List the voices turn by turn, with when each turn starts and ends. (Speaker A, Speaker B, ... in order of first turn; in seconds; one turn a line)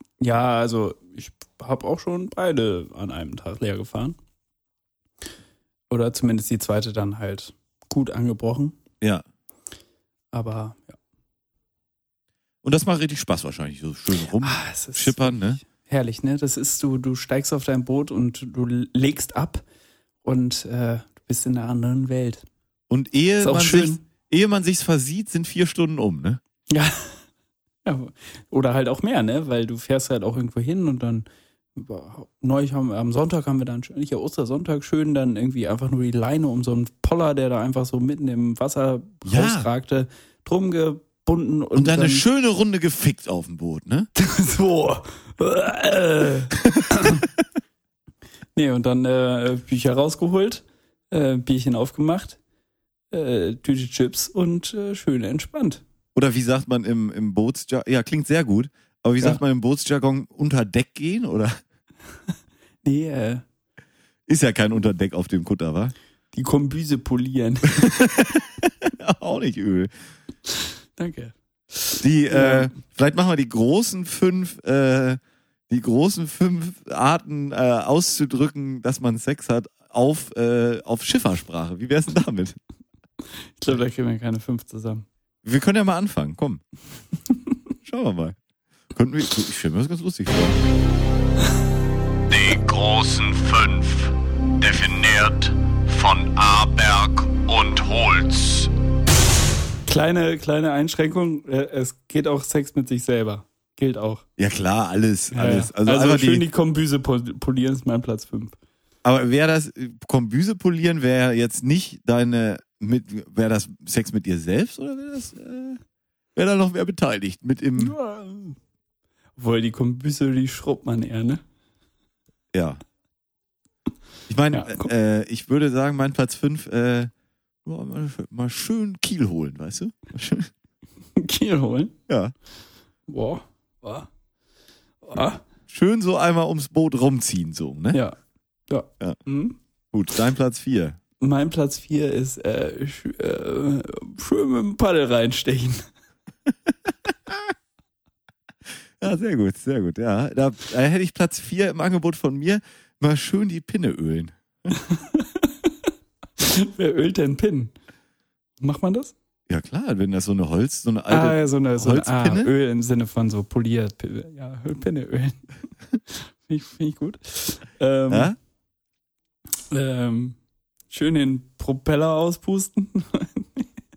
Speaker A: 0.2-4.2
Speaker A: 5.9-8.8
Speaker A: 10.3-11.0
Speaker B: 12.6-15.6
Speaker A: 14.4-19.6
Speaker A: 20.2-22.4
Speaker B: 22.9-26.4
Speaker A: 23.4-24.0
Speaker A: 26.7-27.2
Speaker A: 27.9-42.3
Speaker B: 39.2-39.7
Speaker B: 41.8-44.1
Speaker A: 44.2-47.3
Speaker A: 48.6-52.4
Speaker A: 53.1-55.8
Speaker B: 56.1-61.6
Speaker A: 62.8-63.4
Speaker B: 64.3-65.9
Speaker A: 66.3-67.9
Speaker B: 67.8-69.9
Speaker A: 71.0-72.7
Speaker B: 72.0-82.6
Speaker A: 83.6-85.1
Speaker B: 85.4-86.6
Speaker B: 87.8-88.4
Speaker B: 89.0-90.6
Speaker B: 92.3-92.6
Speaker C: 92.8-93.9
Speaker C: 96.2-97.1
Speaker C: 97.7-98.3
Speaker A: 99.9-104.2
Speaker B: 104.4-106.5
Speaker A: 105.3-108.6
Speaker B: 109.0-115.8
Speaker B: 116.3-118.0
Speaker A: 117.8-118.6
Speaker A: 119.4-121.4
Speaker B: 122.5-122.8
Speaker B: 124.3-127.1
Speaker A: 124.5-124.9
Speaker B: 127.7-130.5
Speaker A: 131.2-132.0
Speaker B: 132.1-132.3
Speaker A: 133.1-134.1
Speaker A: 135.0-135.4
Speaker B: 135.7-138.0
Speaker A: 138.7-139.6
Speaker B: 139.9-141.0
Speaker A: 141.2-145.8
Speaker B: 149.0-154.7
Speaker A: 154.8-155.5
Speaker A: 156.4-157.7
Speaker A: 158.6-159.1
Speaker B: 159.5-162.5
Speaker A: 161.1-165.4
Speaker A: 166.5-168.3
Speaker B: 168.1-168.4
Speaker A: 169.7-170.4
Speaker A: 170.9-173.7